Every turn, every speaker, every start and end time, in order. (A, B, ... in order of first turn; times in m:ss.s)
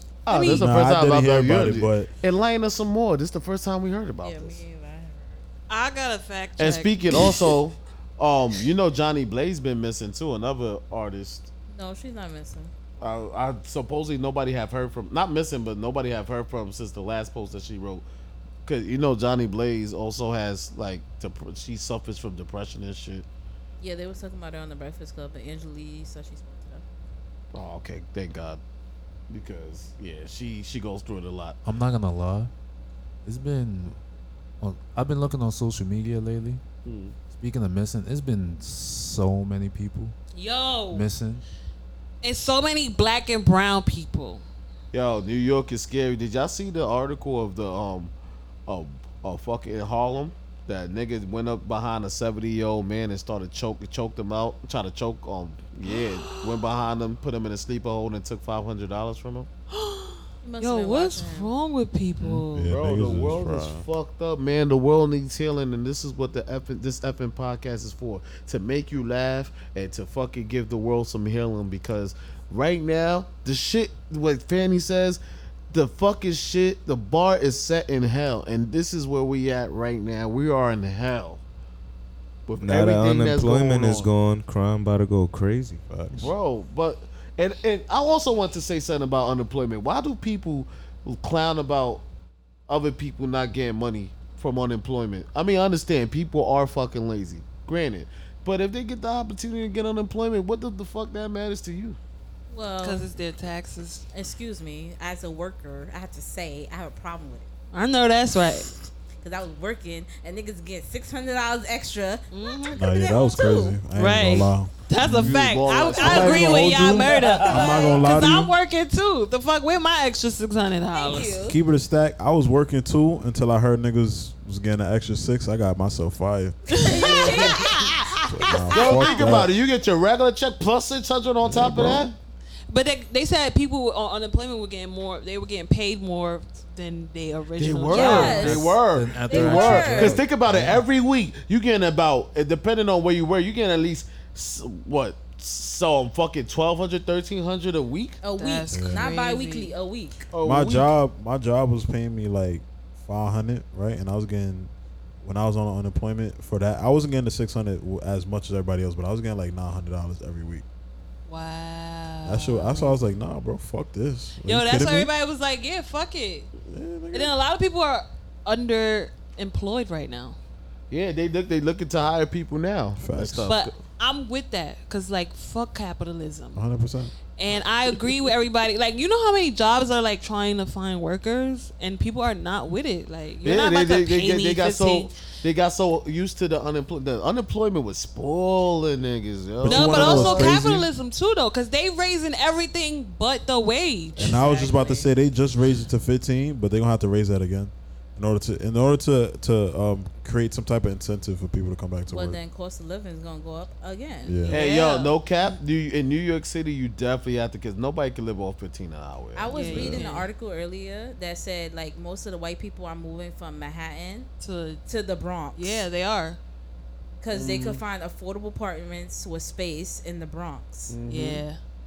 0:00.3-0:04.6 A
0:00.3-0:00.6 B
0:00.5-0:02.1 C
0:04.2-0:05.4 D
0:05.7-0:07.4 B
0:06.6-0:11.5 A
0:11.7-0:12.7 D
0:13.0-0:18.0 A
0:18.6-0:23.2 A
0:23.8-0:26.8 D
0:27.5-0:28.6 A
0:29.3-0:31.6 A
0:31.6-0:32.5 E
0:33.2-0:34.0 E
0:34.6-0:36.6 E
0:36.8-0:37.1 A
0:37.3-0:40.2 E
0:40.3-0:41.1 B
0:40.9-0:41.4 E
0:42.2-0:44.4 B
0:44.9-0:48.1 A
0:48.7-0:59.5 A
0:55.9-0:56.6 B
0:59.7-1:02.8 B
1:00.4-1:01.5 D
1:02.3-1:03.9 C
1:02.7-1:15.2 A
1:15.7-1:21.4 A
1:22.5-1:24.1 A
1:22.6-1:25.8 F
1:25.9-1:26.3 C
1:26.1-1:32.0 A
1:32.7-1:42.0 A
1:42.5-1:43.1 D
1:42.8-1:44.0 B
1:44.1-1:47.5 D
1:47.7-1:48.7 B
1:49.2-1:53.8 D
1:52.3-1:52.8 B
1:52.7-1:55.3 C
1:54.0-2:01.4 B
1:55.1-1:57.4 A
1:56.0-1:58.5 C
1:57.5-1:58.0 D
2:00.9-2:01.6 D
2:01.5-2:06.8 C
2:06.7-2:09.1 B
2:06.8-2:08.0 D
2:07.0-2:07.6 A
2:08.3-2:09.5 C
2:08.7-2:09.2 D
2:08.7-2:12.1 A
2:11.4-2:12.1 C
2:12.7-2:18.6 B
2:17.6-2:28.2 A
2:17.9-2:18.7 D
2:18.2-2:20.8 E
2:19.3-2:20.2 D
2:28.2-2:30.2 D
2:28.4-2:29.7 B
2:28.7-2:29.0 C
2:30.3-2:30.9 A
2:30.4-2:34.7 C
2:35.2-2:40.6 C
2:41.3-2:43.0 B
2:42.3-2:45.1 C
2:44.4-2:46.5 B
2:46.7-2:47.4 C
2:47.1-2:50.4 B
2:50.9-2:53.7 A
2:53.0-2:53.5 C
2:53.5-2:56.6 B
2:56.6-2:57.1 C
2:57.4-3:05.1 B
3:03.4-3:10.6 A
3:09.6-3:10.9 C
3:09.7-3:14.4 B
3:14.2-3:15.1 D
3:14.2-3:22.4 C
3:22.1-3:24.7 D
3:24.2-3:24.6 C
3:24.5-3:29.7 A
3:24.6-3:25.1 B
3:29.4-3:34.3 D
3:29.5-3:30.3 B
3:29.7-3:30.1 C
3:34.4-3:34.8 B
3:34.9-3:35.8 D
3:35.6-3:36.4 B
3:37.2-3:40.9 D
3:37.3-3:37.8 A
3:40.9-3:41.4 A
3:41.1-3:41.6 B